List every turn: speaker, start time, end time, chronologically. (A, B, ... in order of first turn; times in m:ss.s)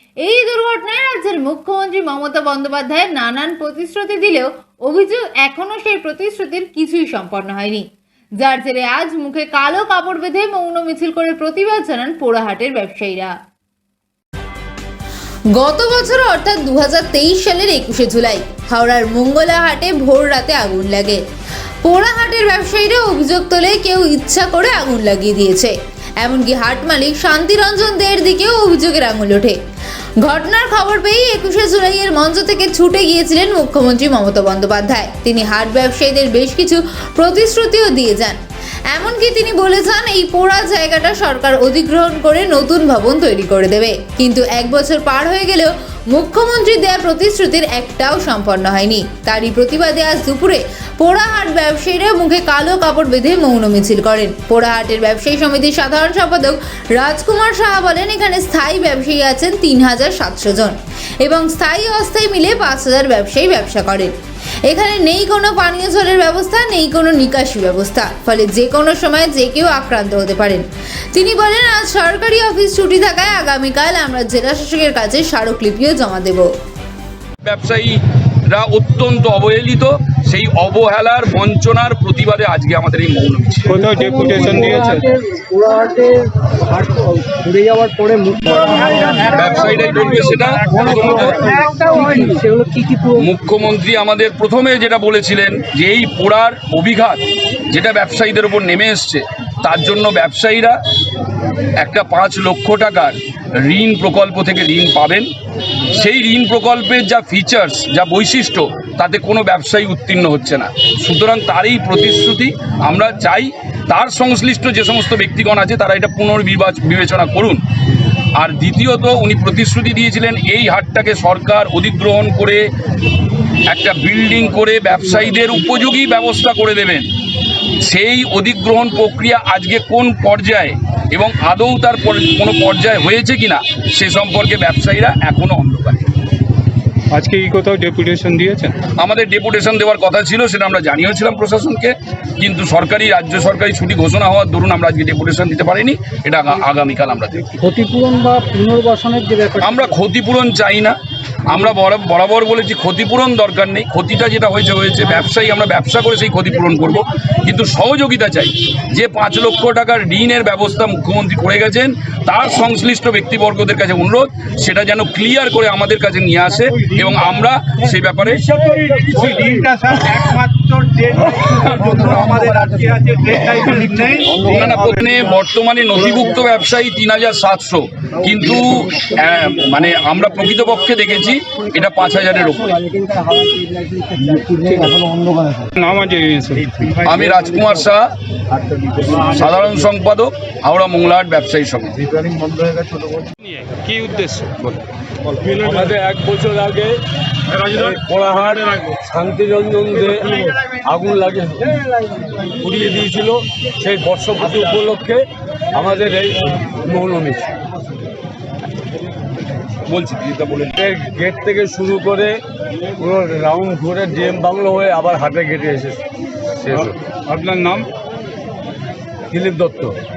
0:00.2-0:07.8 A
0:08.4-0:13.3 A
0:15.6-0:21.2 A
0:21.8-0:29.6 A
0:30.2-0:38.4 A
0:38.9-1:04.1 A
1:04.7-1:16.5 A
1:17.4-1:23.8 B
1:23.7-1:25.1 C
1:23.9-1:33.3 D
1:29.2-1:31.4 B
1:30.8-1:31.3 C
1:33.1-1:40.8 B
1:41.8-1:45.3 B
1:45.9-1:57.6 B
1:58.3-2:02.6 B
2:03.7-2:07.1 B
2:07.8-2:16.1 B
2:17.1-2:18.8 C
2:18.9-2:27.6 B
2:27.6-2:29.8 D
2:29.6-2:48.6 B
2:48.5-2:54.8 E
2:51.9-2:53.0 D
2:54.1-2:54.6 D
2:54.3-3:02.8 B
3:02.7-3:05.6 D
3:05.8-3:07.1 C
3:07.0-3:08.1 B
3:08.6-3:09.2 E
3:09.1-3:12.0 B
3:12.0-3:13.3 E
3:13.4-3:14.8 C
3:15.4-3:17.0 F
3:17.6-3:21.9 F
3:22.4-3:27.6 F
3:29.9-3:30.8 B
3:30.8-3:32.4 F
3:33.0-3:36.0 F
3:36.6-3:36.9 F
3:36.7-3:37.9 C
3:39.3-3:40.0 F